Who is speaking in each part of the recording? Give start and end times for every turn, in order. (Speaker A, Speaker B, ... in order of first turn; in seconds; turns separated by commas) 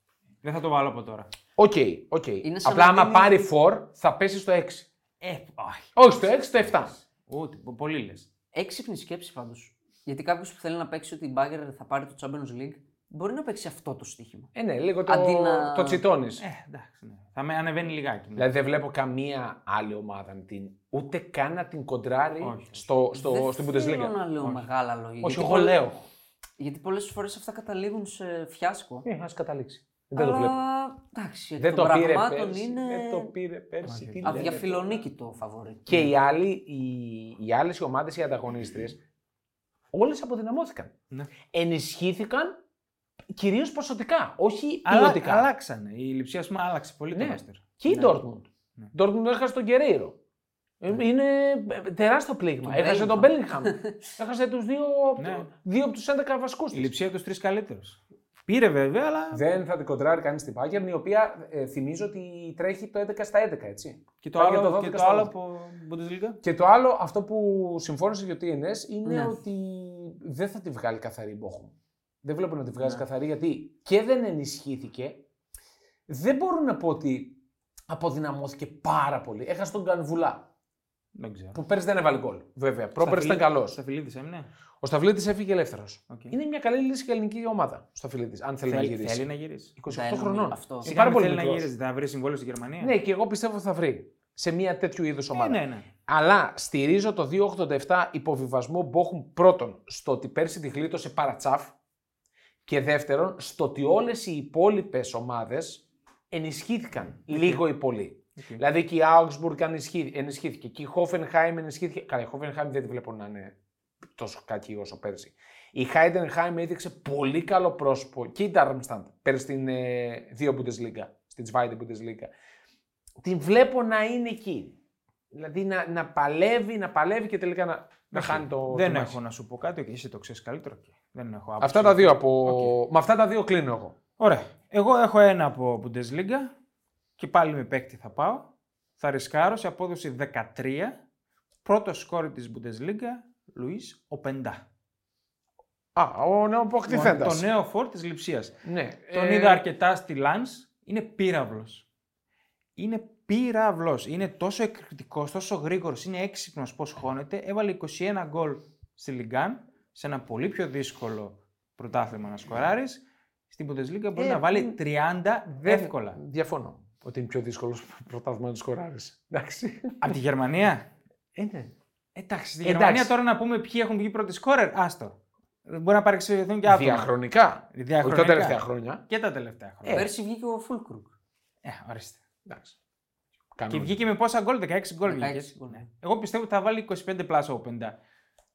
Speaker A: 0.4-1.3, Speaker B: 1.6-4.9, Speaker C: 2.4-3.5, Speaker A: 5.2-8.3, Speaker B: 6.0-6.9, Speaker C: 8.5-14.5, Speaker B: 14.6-16.4, Speaker C: 15.1-16.0, Speaker A: 16.4-18.5, Speaker B: 18.4-24.1, Speaker A: 22.4-22.8, Speaker C: 23.1-25.8, Speaker B: 25.2-26.1, Speaker C: 26.6-29.1, Speaker B: 29.0-30.6, Speaker C: 30.1-33.3, Speaker B: 31.6-35.0, Speaker A: 33.9-34.6, Speaker C: 34.2-36.1, Speaker B: 35.9-39.0, Speaker B: 39.9-40.9, Speaker B: 41.5-42.6, Speaker B: 43.4-45.5, Speaker A: 44.9-48.1, Speaker B: 47.1-50.2, Speaker B: 50.8-57.0, Speaker C: 52.6-53.9, Speaker A: 55.2-55.5, Speaker A: 56.7-59.4, Speaker B: 59.3-65.3, Speaker A: 64.2-66.4, Speaker B: 66.4-75.2, Speaker C: 69.0-69.4, Speaker B: 76.1-77.4, Speaker B: 77.9-80.5, Speaker A: 81.2-81.6, Speaker B: 81.5-83.8, Speaker A: 83.0-84.5, Speaker B: 84.8-89.3, Speaker A: 86.1-86.3, Speaker A: 88.7-89.7, Speaker B: 89.8-91.7, Speaker C: 89.9-90.9, Speaker A: 90.8-92.9, Speaker B: 92.8-101.7, Speaker A: 95.3-95.9, Speaker B: 102.7-113.5, Speaker A: 107.3-107.6, Speaker A: 108.4-108.6, Speaker B: 114.2-122.3, Speaker B: 123.2-124.7, Speaker B: 125.3-129.2, Speaker A: 128.1-132.7, Speaker B: 131.6-133.9, Speaker A: 134.2-136.5, Speaker A: 137.2-138.4, Speaker A: 139.0-141.0, Speaker A: 141.6-144.6, Speaker B: 145.9-147.4, Speaker A: 146.9-148.6, Speaker B: 148.6-149.6, Speaker A: 149.1-151.8, Speaker A: 152.8-166.2, Speaker B: 164.2-164.8, Speaker B: 165.6-170.1, Speaker A: 170.0-170.9, Speaker B: 171.4-173.1, Speaker A: 172.6-177.1, Speaker B: 176.7-179.0, Speaker A: 177.7-180.1, Speaker B: 179.8-180.1, Speaker C: 179.9-181.1, Speaker A: 181.6-182.2, Speaker B: 182.5-182.7, Speaker B: 183.6-184.0, Speaker A: 183.7-187.9, Speaker C: 185.1-185.9